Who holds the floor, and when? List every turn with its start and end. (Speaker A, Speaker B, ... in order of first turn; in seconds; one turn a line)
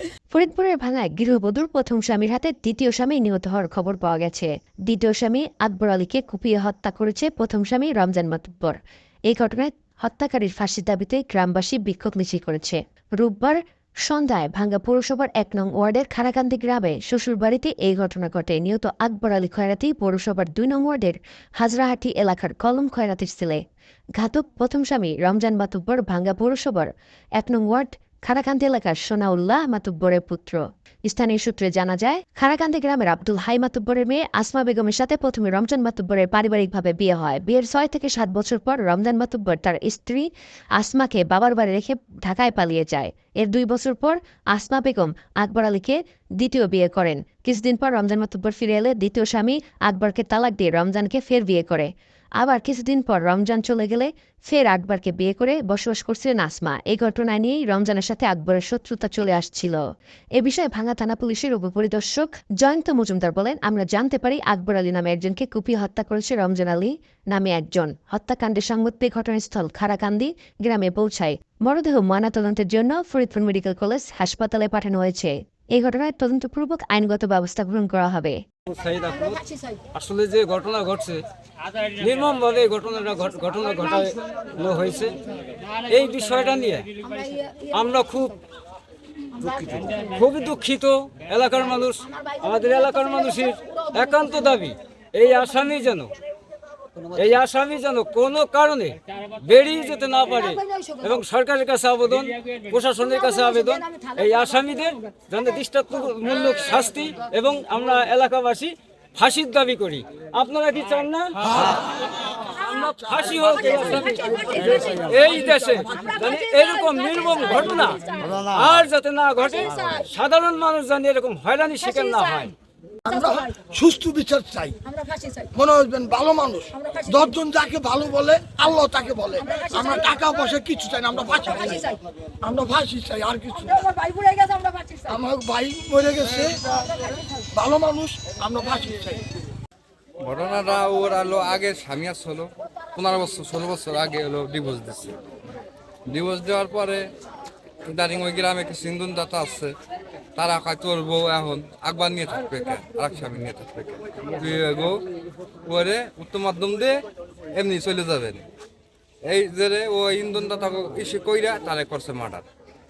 Speaker A: 0.3-23.6
Speaker A: 24.2-59.8
Speaker A: 60.4-78.4
Speaker B: 78.7-79.4
Speaker C: 79.1-79.8
Speaker B: 79.9-81.2
Speaker B: 82.0-85.2
Speaker B: 85.8-86.9
Speaker C: 87.0-88.4
Speaker B: 87.7-88.3
Speaker C: 89.4-90.0
Speaker B: 90.0-96.1
Speaker C: 92.0-94.6
Speaker B: 97.1-111.7
Speaker C: 100.2-101.2
Speaker C: 103.0-105.1
Speaker D: 111.4-113.7
Speaker B: 112.5-114.5
Speaker C: 113.5-118.6
Speaker D: 114.8-115.9
Speaker B: 115.0-122.5
Speaker C: 119.3-120.1
Speaker C: 121.8-122.5
Speaker C: 123.1-123.6
Speaker D: 123.1-124.8
Speaker C: 124.8-125.5
Speaker D: 125.6-131.7
Speaker C: 126.7-127.4
Speaker C: 129.3-130.5
Speaker C: 131.1-132.0
Speaker D: 132.4-133.8
Speaker C: 133.5-135.2
Speaker D: 135.1-136.5
Speaker C: 136.4-137.5
Speaker D: 137.5-139.2
Speaker E: 140.2-145.2
Speaker E: 146.1-147.0
Speaker E: 147.9-149.7
Speaker E: 150.3-154.9
Speaker E: 155.7-156.9
Speaker E: 157.6-158.4
Speaker E: 159.2-162.4